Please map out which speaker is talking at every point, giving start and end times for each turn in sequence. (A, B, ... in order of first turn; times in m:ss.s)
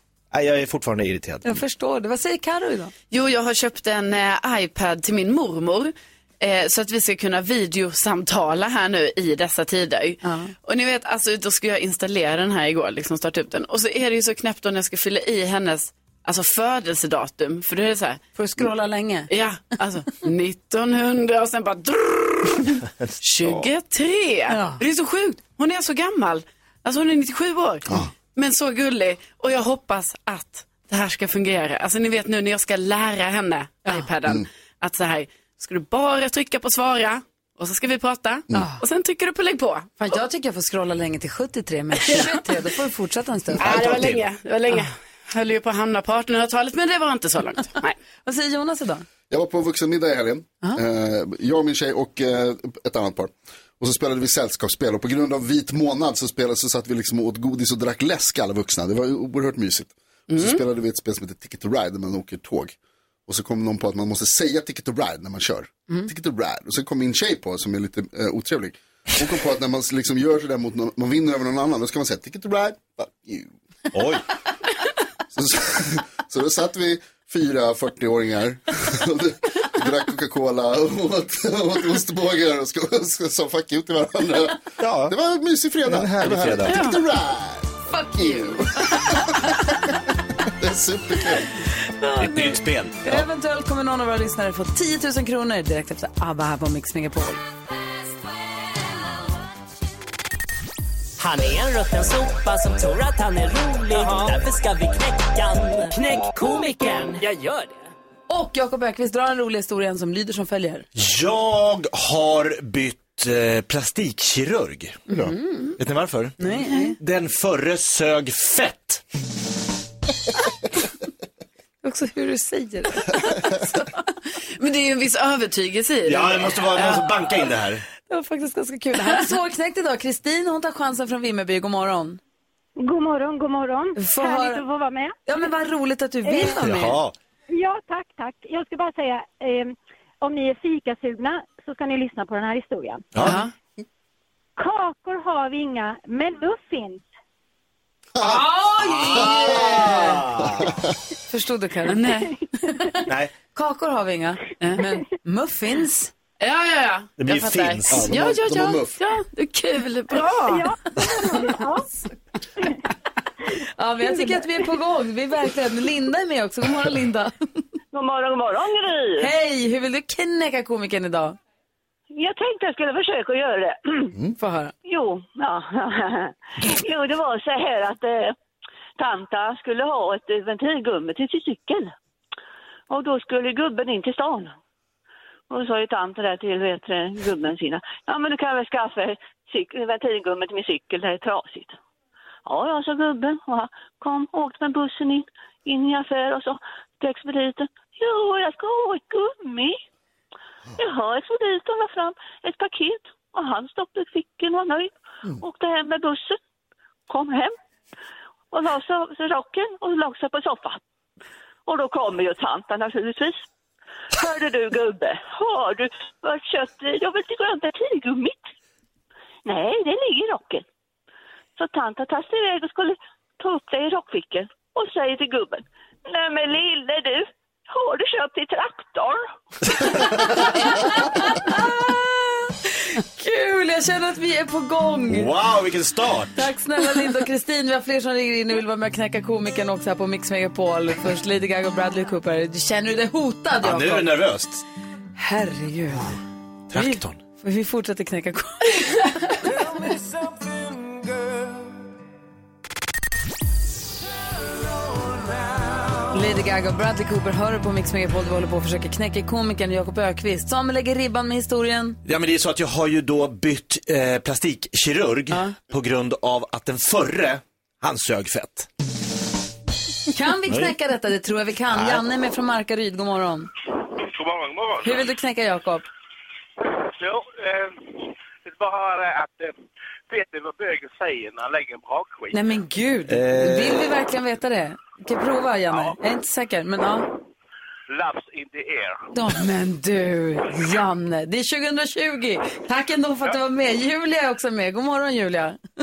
0:00.3-0:01.6 A
0:01.4-0:02.9 B
0:03.1-0:18.2 C
0:10.2-0:10.5 B
0:18.4-0:19.3 B
0:19.3-0:39.9 C
0:23.0-0:23.6 A
0:24.5-0:24.8 B
0:38.5-0:38.8 B
0:40.0-0:43.7 B
0:42.0-0:42.4 C
0:43.6-0:48.0 C
0:43.6-0:44.2 A
0:48.2-0:49.0 B
0:49.3-1:13.5 D
1:00.3-1:00.6 C
1:13.9-1:14.2 A
1:15.3-1:28.6 D
1:24.8-1:25.1 A
1:25.8-1:26.8 A
1:26.7-1:27.0 C
1:27.9-1:29.3 B
1:30.4-1:31.5 D
1:31.9-1:37.4 B
1:32.2-1:33.2 A
1:41.2-1:47.8 E
1:48.3-1:50.9 B
1:51.0-1:55.0 A
1:55.1-1:55.8 B
1:55.8-1:56.4 A
1:56.4-1:57.0 B
1:57.0-1:59.0 A
2:01.8-2:03.6 B
2:04.6-2:07.2 C
2:06.0-2:07.8 A
2:08.1-2:12.2 B
2:12.8-2:15.1 F
2:14.0-2:14.6 B
2:15.2-2:17.0 B
2:16.4-2:17.1 A
2:17.5-2:23.1 F
2:23.1-2:23.4 A
2:23.2-2:23.5 C
2:24.6-2:27.0 F
2:28.2-2:30.2 B
2:28.8-2:30.8 A
2:29.2-2:30.1 D
2:31.3-2:33.0 B
2:31.9-2:32.3 C
2:33.0-2:33.3 A
2:33.5-2:36.1 B
2:36.4-2:40.7 C
2:37.2-2:38.1 A
2:37.9-2:39.0 D
2:40.5-2:41.9 F
2:43.6-2:47.6 B
2:47.9-2:49.3 G
2:49.2-2:51.4 B
2:52.1-2:54.2 G
2:54.4-2:54.7 B
2:54.8-2:58.4 G
2:59.0-3:01.9 G
3:02.9-3:04.6 G
3:05.5-3:11.8 G
3:12.4-3:19.8 G
3:20.8-3:26.4 G
3:27.1-3:27.5 G
3:28.5-3:30.8 G
3:31.7-3:33.4 G
3:34.1-3:38.5 G
3:39.4-3:40.6 G
3:41.6-3:49.2 G
3:50.5-3:52.0 B
3:52.8-3:55.3 B
3:55.1-3:56.4 A
3:56.4-4:04.1 B
4:03.6-4:04.6 A
4:05.2-4:06.2 B
4:06.7-4:07.2 A
4:06.7-4:09.6 B
4:16.1-4:22.0 B
4:22.0-4:28.7 A
4:30.1-4:33.5 B
4:31.7-4:32.0 A
4:34.0-4:35.0 H
4:34.8-4:35.8 B
4:36.8-4:37.8 H
4:38.4-4:39.5 H
4:40.1-4:42.4 H
4:42.3-4:47.1 B
4:43.1-4:43.9 A
4:47.9-4:49.0 H
4:49.1-4:55.6 B